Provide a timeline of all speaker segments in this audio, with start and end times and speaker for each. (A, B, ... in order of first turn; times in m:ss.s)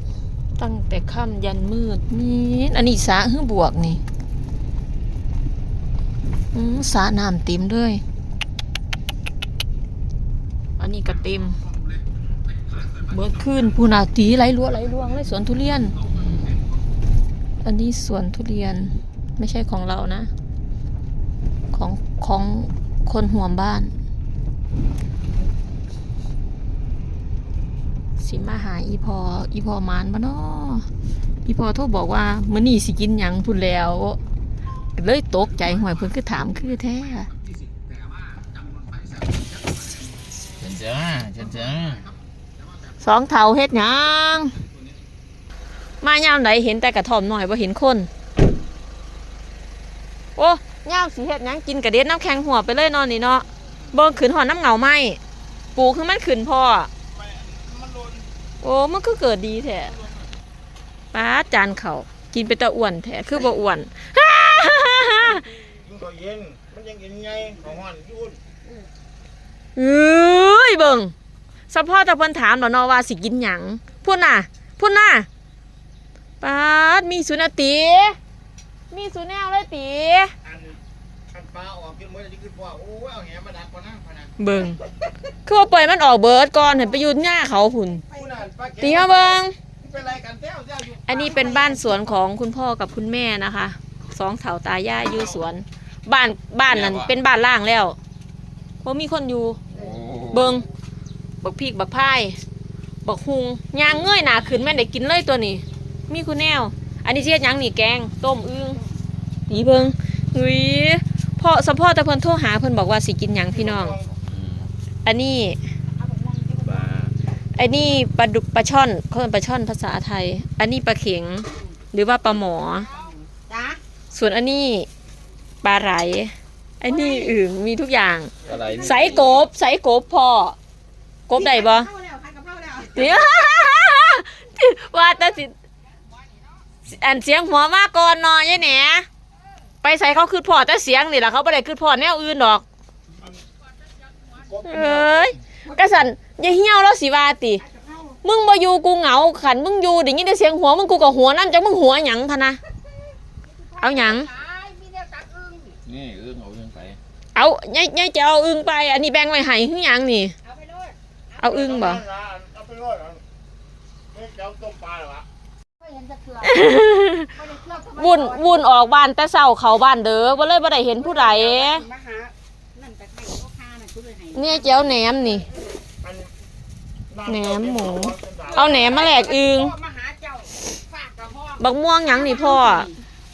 0:00.6-0:04.0 A
0:06.5-0:08.0 A
0:10.8-0:11.6 A
0:13.0-0:16.0 A
0:17.6-0:20.3 A
0:21.7-0:23.9 A
0:28.2-0:30.9 A
0:31.4-0:34.2 A
0:34.9-0:37.3 A
0:40.6-0:42.1 B
0:43.0-0:44.6 A
0:46.0-0:48.1 A
0:50.4-0:55.2 A
0:55.7-0:56.9 A
0:57.2-0:58.2 C
0:58.6-1:00.0 A
1:01.1-1:05.4 A
1:05.8-1:08.4 C
1:09.8-1:11.1 A
1:11.7-1:15.3 A
1:16.4-1:18.2 A
1:18.9-1:20.3 A
1:21.3-1:24.2 C
1:24.4-1:24.8 A
1:25.4-1:28.0 A
1:28.1-1:28.5 D
1:28.2-1:29.2 C
1:28.8-1:29.6 A
1:29.9-1:31.0 C
1:30.9-1:38.0 A
1:36.7-1:37.1 B
1:38.8-1:39.6 A
1:39.7-1:40.6 B
1:40.3-1:40.7 A
1:41.4-1:42.4 A
1:43.0-1:48.8 A
1:49.5-1:54.0 A
1:54.2-1:54.7 B
1:55.0-1:55.6 A
1:56.0-1:57.0 D
1:56.6-1:57.1 B
1:57.5-2:02.9 A
2:02.7-2:03.8 D
2:04.1-2:04.9 A
2:05.6-2:10.6 A
2:06.8-2:07.3 D
2:08.4-2:09.4 B
2:11.3-2:11.9 A
2:11.3-2:13.2 D
2:12.9-2:15.5 A
2:16.8-2:19.1 A
2:19.8-2:22.6 A
2:24.6-2:27.6 A
2:27.6-2:28.2 D
2:28.2-2:32.6 A
2:33.4-2:35.8 D
2:33.8-2:34.3 A
2:35.8-2:37.0 B
2:37.3-2:40.3 A
2:40.4-2:41.4 D
2:41.4-2:42.0 A
2:41.7-2:43.2 C
2:44.1-2:45.2 C
2:45.8-2:46.6 D
2:46.4-2:47.3 A
2:47.3-2:48.6 D
2:47.9-2:51.8 A
2:51.0-2:54.9 D
2:54.3-2:55.5 A
2:56.0-2:56.3 C
2:57.2-2:59.7 A
2:57.4-2:58.5 C
2:58.4-3:03.0 D
3:01.6-3:02.9 A